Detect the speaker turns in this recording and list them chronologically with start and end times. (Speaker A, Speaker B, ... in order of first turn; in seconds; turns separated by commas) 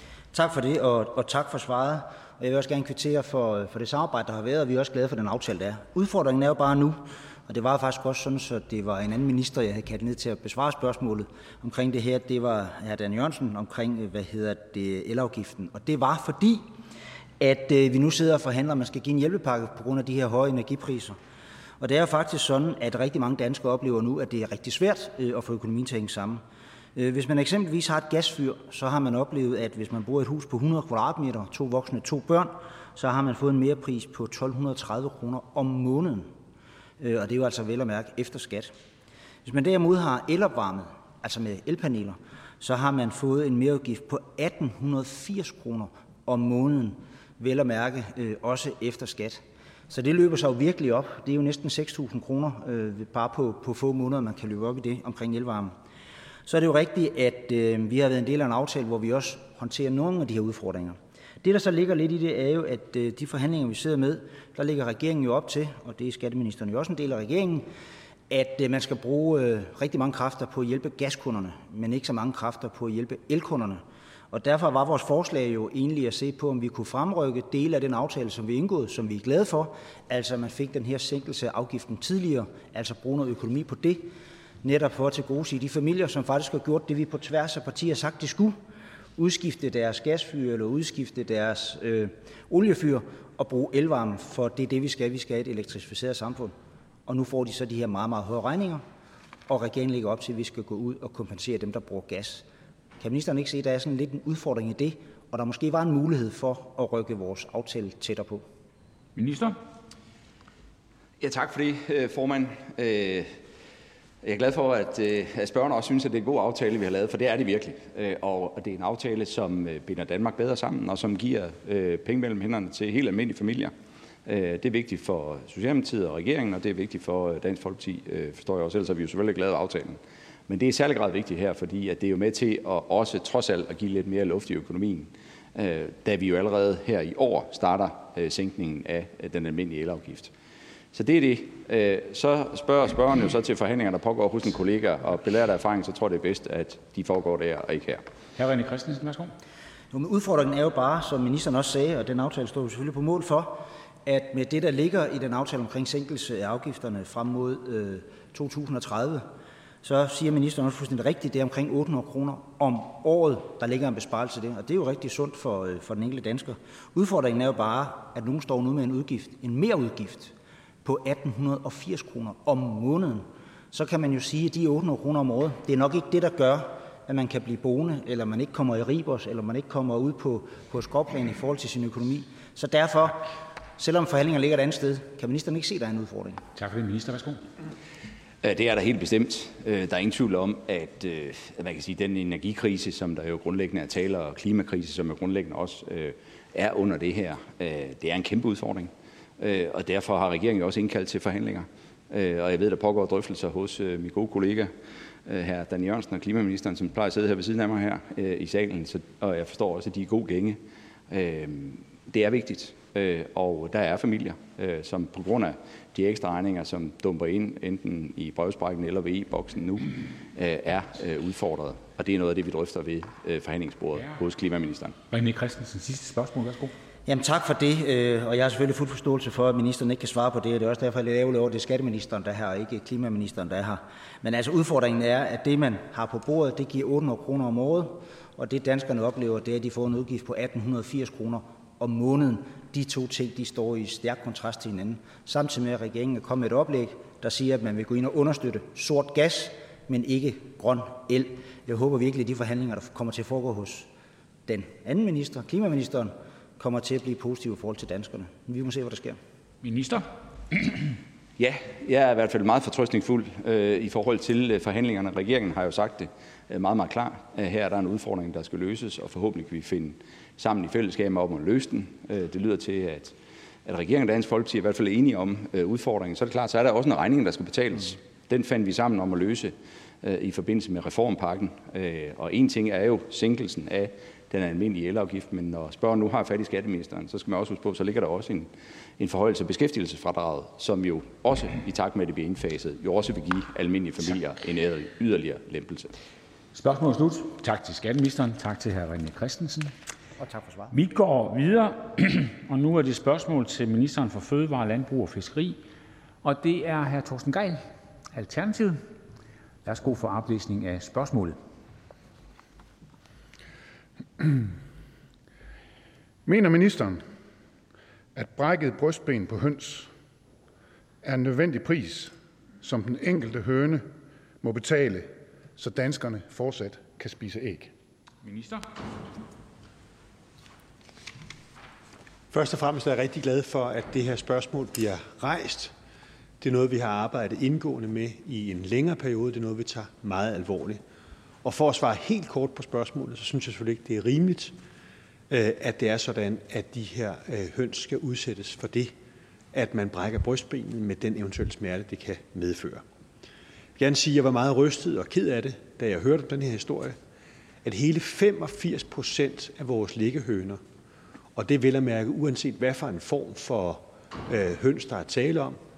Speaker A: 0.3-16.6, Speaker A: 17.4-21.2, Speaker A: 21.8-26.4, Speaker A: 26.9-36.3, Speaker A: 37.0-38.7, Speaker A: 39.4-55.7, Speaker A: 56.5-67.7, Speaker A: 68.3-84.1, Speaker A: 84.6-88.5, Speaker A: 89.2-96.5, Speaker A: 97.1-98.8, Speaker A: 99.5-102.4, Speaker A: 103.0-108.4, Speaker B: 109.1-109.6, Speaker C: 111.2-113.3, Speaker C: 114.2-123.7, Speaker C: 124.2-140.3, Speaker C: 140.9-148.1, Speaker B: 148.3-149.3, Speaker A: 149.9-159.3, Speaker A: 159.8-186.4, Speaker B: 186.5-187.4, Speaker C: 188.4-204.7, Speaker C: 205.2-224.9, Speaker B: 225.1-226.7, Speaker A: 227.1-253.9, Speaker A: 254.5-259.2, Speaker B: 259.6-260.1, Speaker C: 261.4-295.9, Speaker B: 296.5-299.7, Speaker A: 300.2-300.7, Speaker B: 300.7-305.6, Speaker B: 306.2-308.8, Speaker B: 309.6-311.4, Speaker D: 314.2-314.4, Speaker D: 316.2-317.0, Speaker D: 318.1-319.9, Speaker D: 321.0-327.7, Speaker B: 328.2-328.6, Speaker E: 332.3-335.7, Speaker E: 336.4-340.8, Speaker E: 341.4-344.5, Speaker E: 345.3-348.9, Speaker E: 349.5-352.8, Speaker E: 353.8-356.9, Speaker E: 357.6-360.6, Speaker E: 361.3-365.6